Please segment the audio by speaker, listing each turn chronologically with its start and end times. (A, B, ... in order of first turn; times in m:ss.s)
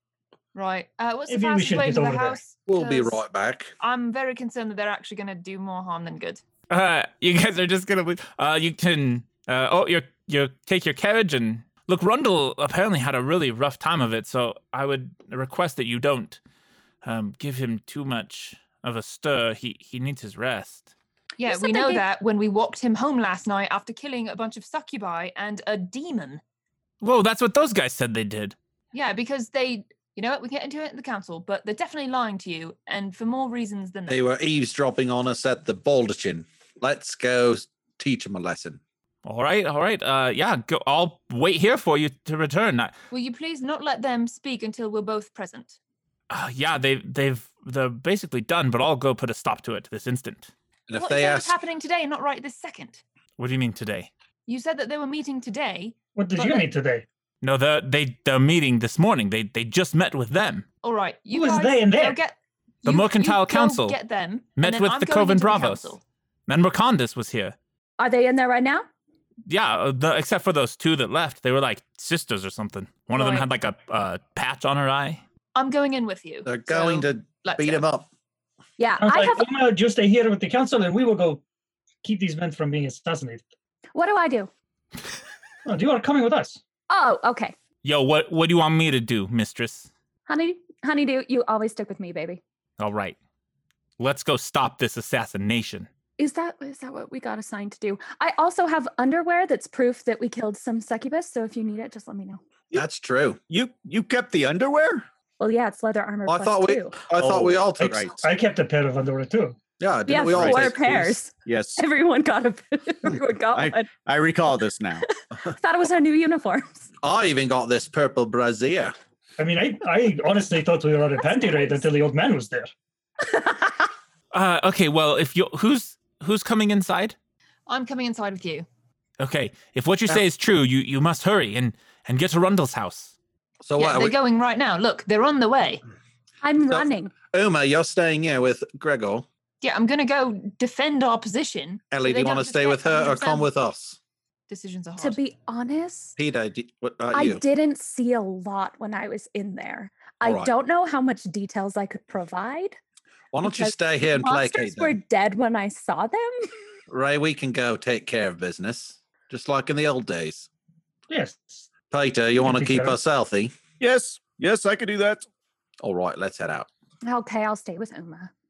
0:00.5-0:03.2 A
0:01.3-0:02.4 B
0:02.7-0:03.7 C
0:03.8-0:06.4 A
0:06.7-0:16.4 D
0:17.0-0:20.9 D
0:21.4-0:22.0 E
0:21.4-0:26.4 A
0:27.0-0:28.6 D
0:28.9-0:34.2 A
0:34.1-0:38.8 C
0:39.2-0:43.0 D
0:43.1-0:45.8 A
0:46.3-0:50.5 D
0:50.9-0:51.6 C
0:50.9-0:53.0 A
0:53.4-0:54.1 D
0:54.5-0:56.7 A
0:56.2-0:57.0 B
0:57.4-1:00.6 D
1:00.8-1:06.0 A
1:01.3-1:02.2 B
1:02.8-1:04.0 D
1:04.6-1:07.6 D
1:08.0-1:08.9 E
1:09.5-1:15.2 D
1:13.2-1:13.5 A
1:15.6-1:17.8 A
1:16.5-1:18.1 C
1:18.8-1:19.5 E
1:19.0-1:21.4 B
1:22.0-1:23.4 B
1:23.9-1:24.5 E
1:25.6-1:26.6 B
1:26.9-1:27.6 E
1:27.8-1:29.9 D
1:30.3-1:32.4 E
1:32.8-1:33.2 D
1:34.0-1:35.9 D
1:36.2-1:42.4 E
1:42.7-1:43.4 C
1:43.5-1:45.1 F
1:45.4-1:47.0 E
1:46.3-1:48.2 C
1:47.1-1:48.2 F
1:48.2-1:49.6 B
1:49.8-1:51.2 C
1:50.1-1:53.9 E
1:50.3-1:50.8 F
1:51.4-1:51.8 F
1:53.5-1:55.0 F
1:55.4-1:56.9 E
1:57.0-1:58.9 C
1:59.4-2:02.7 B
2:01.2-2:01.8 E
2:03.2-2:03.9 E
2:04.3-2:07.2 D
2:07.7-2:08.7 A
2:09.2-2:13.1 D
2:13.6-2:14.2 C
2:13.8-2:15.8 A
2:16.4-2:17.1 E
2:16.7-2:19.3 C
2:19.6-2:23.5 A
2:21.9-2:24.0 C
2:24.5-2:25.2 A
2:25.0-2:26.2 E
2:26.2-2:27.4 C
2:27.1-2:32.8 E
2:30.2-2:30.5 C
2:33.3-2:35.0 C
2:33.4-2:36.5 E
2:36.9-2:40.5 C
2:41.1-2:41.7 B
2:41.9-2:43.5 C
2:42.4-2:43.0 B
2:43.8-2:45.3 F
2:45.8-2:46.7 C
2:47.0-2:48.3 E